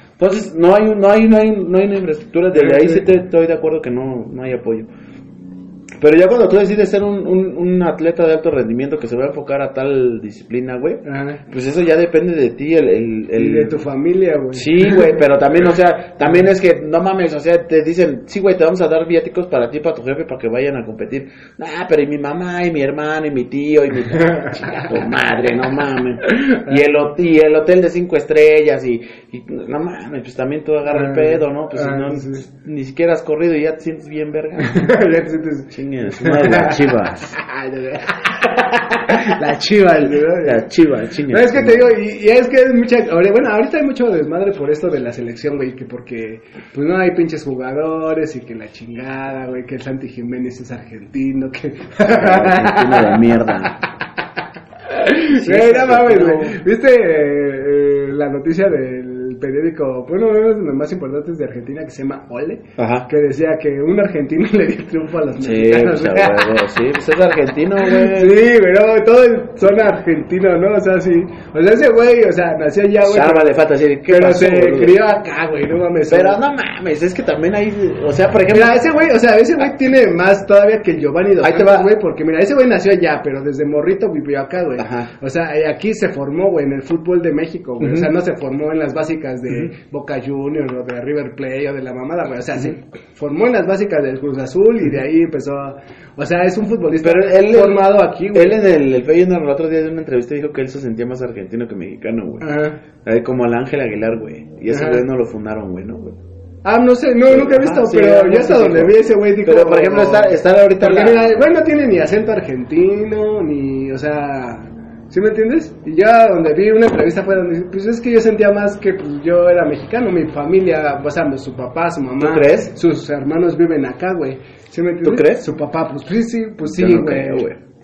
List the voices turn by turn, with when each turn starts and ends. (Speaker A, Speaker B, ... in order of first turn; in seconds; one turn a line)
Speaker A: 0.2-4.9
Speaker B: 2.5-3.0
Speaker A: 6.0-13.8
Speaker B: 11.0-11.4
Speaker B: 13.3-15.1
Speaker A: 14.5-34.9
Speaker B: 24.1-24.9
Speaker B: 26.2-26.8
Speaker B: 30.9-32.4
Speaker B: 34.6-40.6
Speaker A: 35.7-37.4
Speaker A: 40.4-42.0
Speaker B: 41.3-53.8
Speaker A: 52.0-53.8
Speaker B: 54.9-66.6
Speaker A: 55.3-56.6
Speaker A: 62.8-63.1
Speaker A: 65.4-68.4
Speaker B: 67.8-76.4
Speaker A: 73.0-75.0
Speaker A: 76.1-78.8
Speaker B: 78.5-98.6
Speaker A: 81.4-81.9
Speaker A: 84.8-85.1
Speaker A: 87.8-88.1
Speaker A: 97.0-102.5
Speaker B: 102.4-102.8
Speaker A: 103.0-106.2
Speaker B: 104.7-105.0
Speaker B: 106.6-127.5
Speaker A: 107.3-111.5
Speaker A: 122.2-122.7
Speaker A: 125.0-125.5
Speaker A: 126.6-127.6